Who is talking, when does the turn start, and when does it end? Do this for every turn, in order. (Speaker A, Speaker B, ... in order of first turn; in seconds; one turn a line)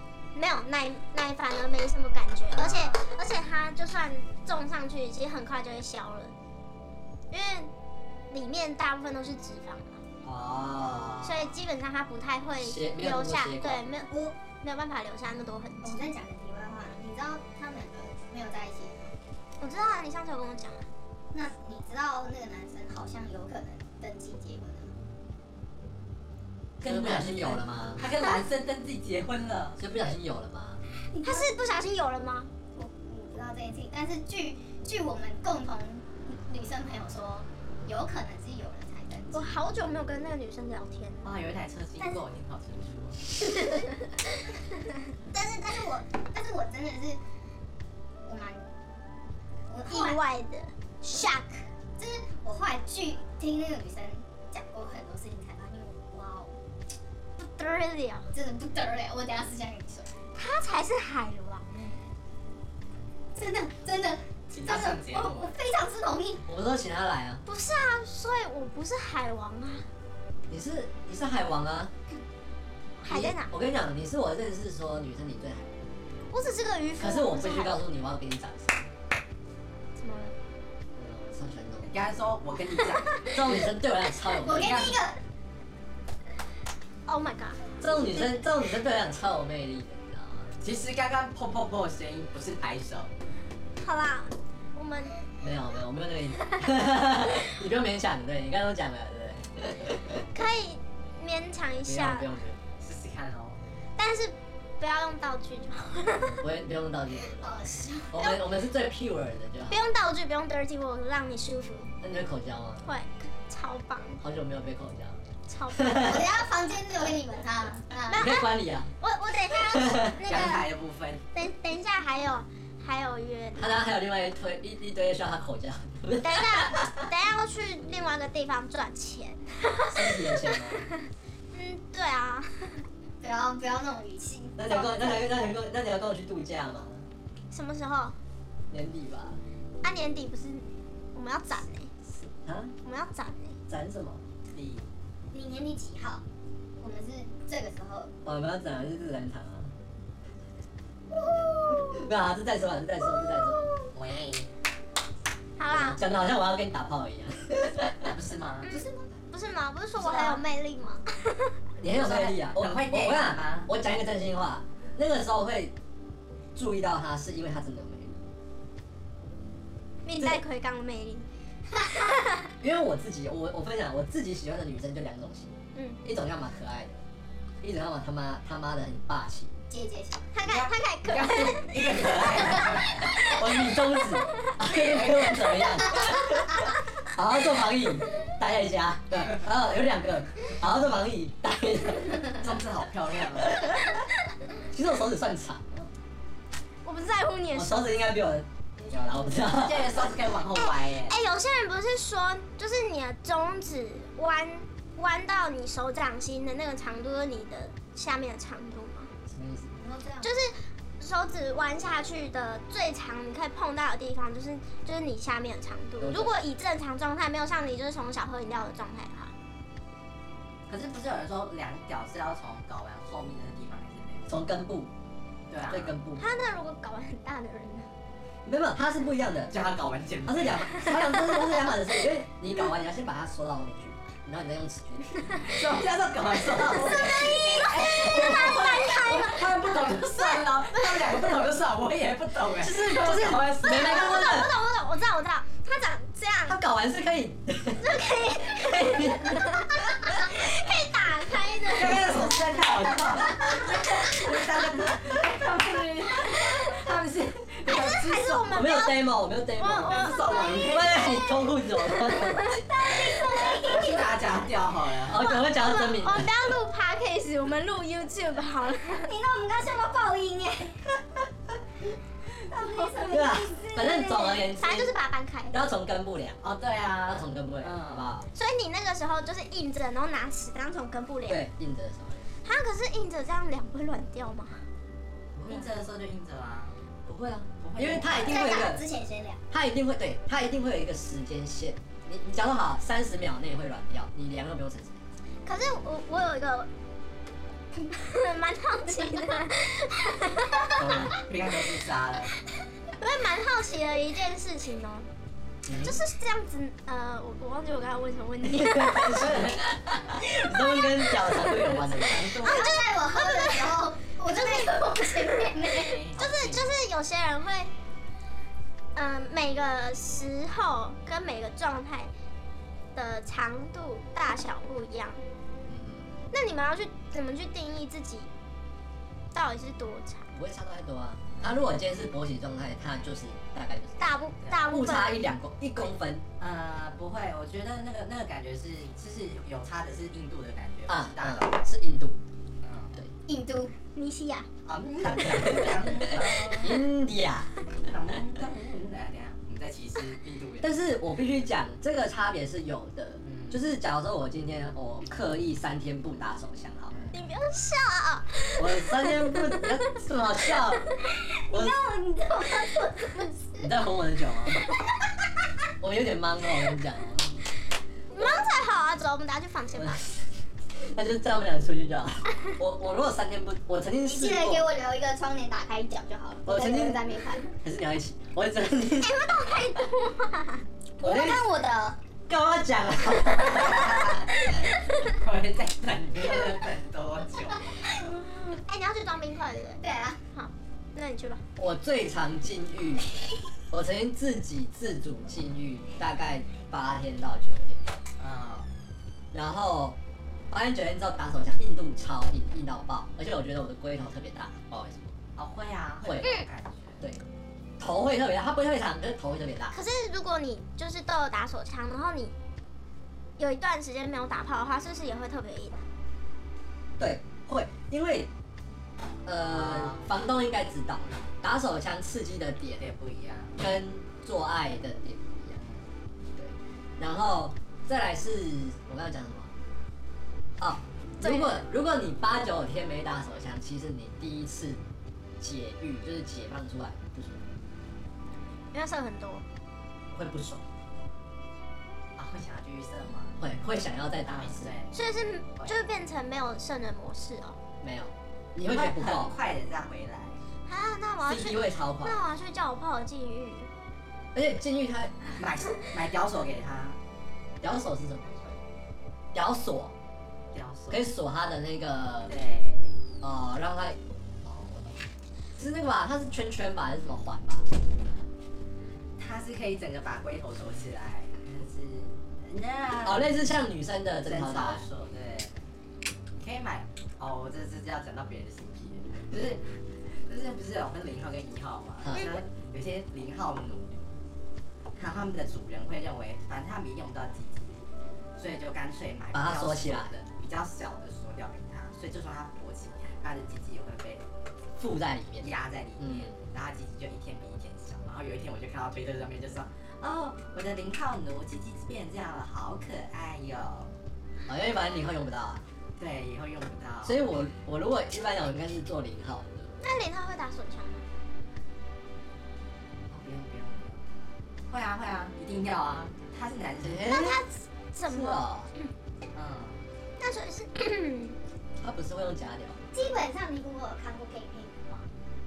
Speaker A: 0.3-6.3
Speaker B: 2.5-3.0
Speaker A: 7.3-7.7
Speaker A: 8.3-10.0
Speaker C: 10.2-11.3
Speaker B: 10.8-11.4
Speaker A: 11.2-16.1
Speaker C: 12.6-13.8
Speaker D: 14.1-14.4
Speaker D: 15.8-19.1
Speaker A: 19.6-20.9
Speaker D: 21.3-24.9
Speaker B: 26.8-29.8
Speaker C: 26.8-28.0
Speaker C: 29.8-30.8
Speaker D: 31.1-31.5
Speaker A: 31.2-32.5
Speaker D: 32.7-39.5
Speaker A: 39.3-41.3
Speaker B: 41.2-43.2
Speaker A: 43.4-44.5
Speaker D: 45.3-47.2
Speaker D: 48.2-48.6
Speaker D: 49.7-50.2
Speaker A: 49.9-51.5
Speaker D: 51.0-56.5
Speaker A: 57.4-58.3
Speaker D: 58.3-60.1
Speaker A: 60.3-62.0
Speaker D: 63.3-66.4
Speaker B: 64.5-65.5
Speaker C: 66.5-67.4
Speaker A: 67.5-69.9
Speaker C: 70.5-71.9
Speaker A: 73.0-73.5
Speaker C: 73.1-75.8
Speaker A: 76.3-77.8
Speaker C: 77.0-78.9
Speaker A: 80.0-80.3
Speaker C: 80.9-81.9
Speaker B: 81.9-83.7
Speaker C: 83.3-84.9
Speaker B: 84.4-85.0
Speaker D: 84.4-85.2
Speaker A: 87.1-88.4
Speaker C: 87.8-90.6
Speaker B: 90.6-93.1
Speaker A: 93.8-95.2
Speaker C: 95.4-100.2
Speaker A: 100.3-102.3
Speaker C: 101.8-102.6
Speaker B: 102.8-103.6
Speaker A: 104.0-106.4
Speaker C: 106.1-107.6
Speaker D: 107.4-108.1
Speaker C: 108.1-109.8
Speaker A: 109.7-111.9
Speaker C: 112.0-112.9
Speaker A: 112.8-114.2
Speaker C: 114.2-116.3
Speaker A: 115.5-116.1
Speaker D: 116.0-118.3
Speaker A: 118.1-120.7
Speaker C: 118.2-118.9
Speaker C: 119.6-120.1
Speaker B: 120.2-121.2
Speaker A: 121.3-123.7
Speaker C: 123.5-127.0
Speaker A: 126.2-131.0
Speaker C: 129.9-130.8
Speaker A: 131.5-132.8
Speaker D: 133.2-135.6
Speaker C: 134.6-137.1
Speaker A: 137.5-138.2
Speaker C: 138.7-139.4
Speaker A: 139.8-141.9
Speaker C: 142.2-142.7
Speaker A: 142.8-143.6
Speaker C: 143.7-144.2
Speaker B: 144.5-144.9
Speaker D: 145.3-146.2
Speaker D: 146.8-148.1
Speaker C: 148.2-149.7
Speaker D: 151.1-152.1
Speaker C: 151.7-153.7
Speaker D: 153.2-153.9
Speaker B: 153.9-154.5
Speaker A: 155.6-156.0
Speaker C: 155.7-158.2
Speaker B: 158.0-158.7
Speaker A: 158.7-161.5
Speaker D: 158.7-159.1
Speaker B: 160.0-160.4
Speaker C: 161.8-165.7
Speaker B: 161.8-163.7
Speaker C: 166.6-168.2
Speaker A: 170.0-172.5
Speaker C: 172.6-177.0
Speaker A: 175.7-176.0
Speaker C: 177.6-179.5
Speaker D: 179.7-180.3
Speaker A: 180.3-183.3
Speaker B: 180.5-183.3
Speaker C: 183.1-192.4
Speaker B: 192.4-193.6
Speaker C: 193.3-194.1
Speaker C: 194.7-195.8
Speaker A: 196.8-197.9
Speaker C: 197.5-200.0
Speaker B: 199.5-201.2
Speaker A: 200.6-209.1
Speaker C: 209.3-209.7
Speaker D: 209.7-210.4
Speaker A: 210.2-219.3
Speaker C: 216.0-216.4
Speaker B: 220.7-224.4
Speaker C: 224.3-224.9
Speaker B: 225.5-225.9
Speaker C: 225.7-226.2
Speaker A: 226.2-227.9
Speaker C: 228.4-229.5
Speaker B: 229.5-230.8
Speaker C: 230.2-235.6
Speaker A: 231.1-231.7
Speaker B: 235.5-244.1
Speaker A: 236.7-239.6
Speaker A: 240.8-241.1
Speaker C: 242.6-244.5
Speaker A: 243.6-246.6
Speaker C: 246.5-250.1
Speaker A: 247.8-252.4
Speaker B: 251.7-258.5
Speaker A: 256.4-256.7
Speaker A: 257.7-259.0
Speaker C: 258.5-262.5
Speaker A: 259.6-261.4
Speaker B: 259.8-260.9
Speaker D: 260.2-261.0
Speaker A: 262.0-262.6
Speaker D: 262.4-264.5
Speaker B: 263.4-265.2
Speaker C: 265.1-266.3
Speaker A: 265.2-269.1
Speaker D: 268.9-270.9
Speaker D: 272.5-274.4
Speaker C: 273.1-274.9
Speaker A: 274.6-275.5
Speaker C: 275.5-276.4
Speaker B: 276.4-278.1
Speaker C: 277.1-278.3
Speaker A: 278.3-281.4
Speaker C: 281.3-282.3
Speaker A: 282.4-284.6
Speaker B: 285.4-286.8
Speaker C: 285.4-285.7
Speaker C: 287.1-288.8
Speaker B: 287.6-288.4
Speaker D: 288.1-289.4
Speaker C: 289.5-295.0
Speaker A: 295.4-296.7
Speaker A: 297.9-301.0
Speaker B: 300.8-302.3
Speaker C: 300.8-301.1
Speaker A: 302.9-305.1
Speaker C: 305.6-306.0
Speaker A: 305.8-309.5
Speaker C: 308.4-312.4
Speaker A: 310.3-310.8
Speaker B: 311.7-312.7
Speaker D: 312.3-316.0
Speaker A: 312.4-314.8
Speaker B: 315.7-316.7
Speaker A: 316.1-317.7
Speaker A: 318.9-322.1
Speaker A: 322.9-325.2
Speaker C: 325.7-326.1
Speaker A: 326.3-328.3
Speaker A: 329.3-330.3
Speaker C: 330.3-336.2
Speaker A: 334.0-335.2
Speaker B: 336.4-341.6
Speaker C: 340.9-342.2
Speaker B: 342.6-343.0
Speaker D: 343.3-343.7
Speaker A: 343.9-344.5
Speaker B: 344.6-346.8
Speaker C: 345.0-347.5
Speaker B: 347.7-350.7
Speaker C: 350.6-357.1
Speaker B: 353.2-353.6
Speaker B: 356.9-357.2
Speaker A: 357.1-359.7
Speaker C: 358.6-360.9
Speaker D: 361.3-363.6
Speaker C: 361.5-361.8
Speaker C: 363.6-364.7
Speaker C: 365.8-367.3
Speaker A: 368.1-370.0
Speaker C: 369.7-370.2
Speaker C: 370.8-374.6
Speaker D: 374.1-377.5
Speaker C: 376.4-377.0
Speaker C: 377.5-379.2
Speaker D: 379.2-379.9
Speaker A: 379.7-380.6
Speaker C: 381.0-381.4
Speaker D: 381.0-382.0
Speaker C: 382.3-384.1
Speaker B: 383.4-387.7
Speaker A: 387.9-389.8
Speaker D: 389.8-390.2
Speaker A: 390.3-391.4
Speaker C: 391.6-393.1
Speaker C: 393.7-397.9
Speaker B: 398.2-398.7
Speaker C: 399.3-400.0
Speaker C: 400.5-405.1
Speaker B: 405.4-407.0
Speaker C: 406.0-406.3
Speaker C: 407.8-409.8
Speaker A: 409.7-412.3
Speaker A: 413.4-415.8
Speaker C: 417.0-418.3
Speaker C: 419.2-422.8
Speaker B: 419.4-420.1
Speaker B: 422.8-423.6
Speaker C: 423.6-425.6
Speaker B: 425.6-425.9
Speaker C: 426.4-429.5
Speaker C: 430.6-434.8
Speaker A: 431.2-431.6
Speaker C: 435.4-437.5
Speaker A: 438.7-439.4
Speaker C: 440.1-440.6
Speaker B: 442.2-443.4
Speaker C: 443.4-444.7
Speaker B: 444.2-444.9
Speaker A: 444.9-447.6
Speaker B: 445.6-445.8
Speaker C: 447.8-449.4
Speaker B: 448.6-450.4
Speaker A: 450.7-453.7
Speaker C: 451.2-452.2
Speaker C: 454.3-455.2
Speaker B: 455.4-457.0
Speaker C: 457.6-458.6
Speaker C: 459.3-459.9
Speaker B: 460.5-461.1
Speaker C: 460.9-462.3
Speaker B: 462.3-463.0
Speaker C: 463.2-464.9
Speaker C: 465.6-467.7
Speaker B: 469.2-473.4
Speaker C: 473.0-474.8
Speaker B: 474.2-475.5
Speaker B: 476.3-484.1
Speaker C: 482.0-482.4
Speaker B: 485.0-494.2
Speaker C: 489.3-490.1
Speaker C: 494.8-496.3
Speaker B: 495.4-503.9
Speaker C: 504.5-505.6
Speaker B: 506.0-507.2
Speaker C: 507.0-509.8
Speaker A: 509.8-511.0
Speaker B: 513.1-514.0
Speaker B: 514.7-517.1
Speaker C: 516.8-517.4
Speaker A: 517.0-518.9
Speaker C: 518.0-518.7
Speaker B: 519.3-519.8
Speaker A: 520.2-521.4
Speaker C: 521.8-522.8
Speaker D: 522.9-525.1